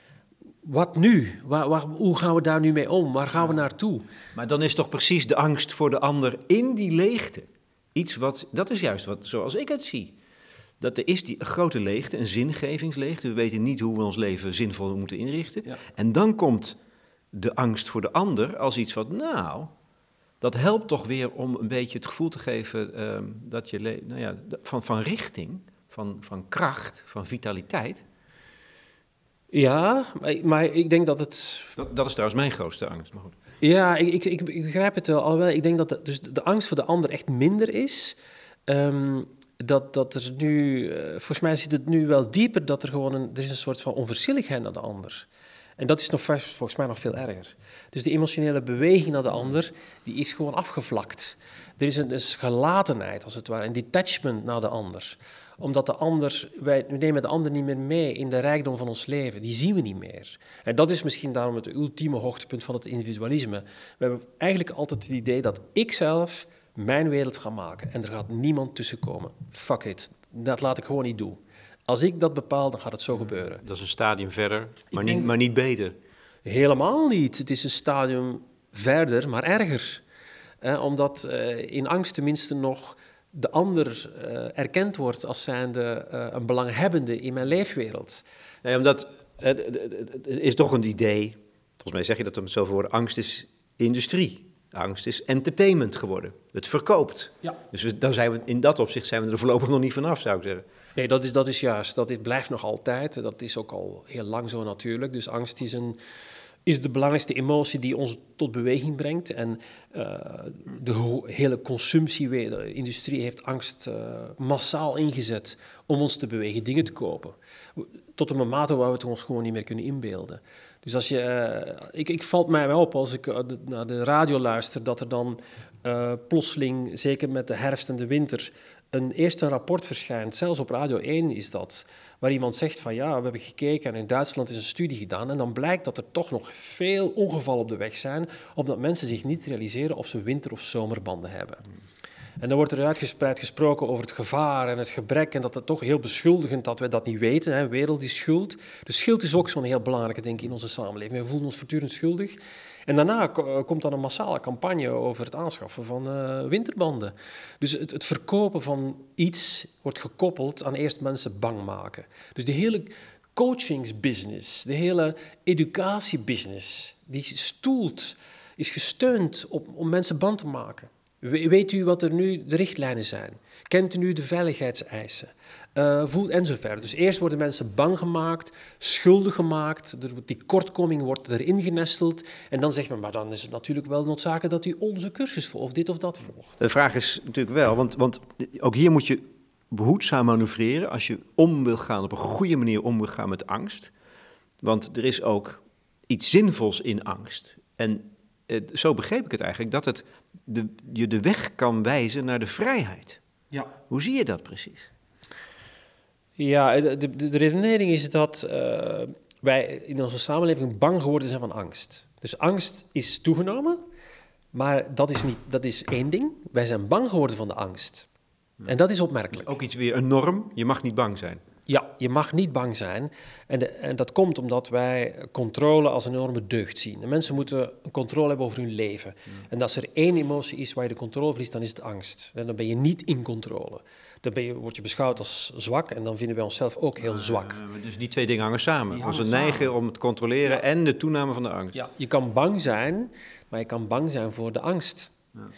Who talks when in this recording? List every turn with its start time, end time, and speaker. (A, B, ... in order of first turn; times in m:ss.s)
0:00.6-0:04.1 A
0:04.3-0:10.2 B
0:10.8-0:16.8 B
0:17.3-0:19.7 B
0:20.4-0:28.0 B
0:29.5-0:31.8 A
0:31.8-0:33.4 B
0:33.6-0:45.3 A
0:45.8-1:13.6 A
1:13.6-1:16.0 B
1:14.9-1:15.3 A
1:16.4-1:20.0 A
1:20.6-1:28.2 A
1:28.6-1:40.6 B
1:41.0-1:46.0 A
1:46.7-2:21.6 A
2:22.4-3:06.6 A
3:06.6-3:13.9 B
3:14.6-3:23.2 B
3:23.9-3:24.9 B
3:26.4-3:33.8 A
3:34.5-3:38.1 A
3:38.7-3:39.6 A
3:39.3-3:41.4 B
3:41.7-3:57.6 A
3:57.0-4:01.8 B
3:58.9-3:59.7 A
4:01.7-4:05.1 A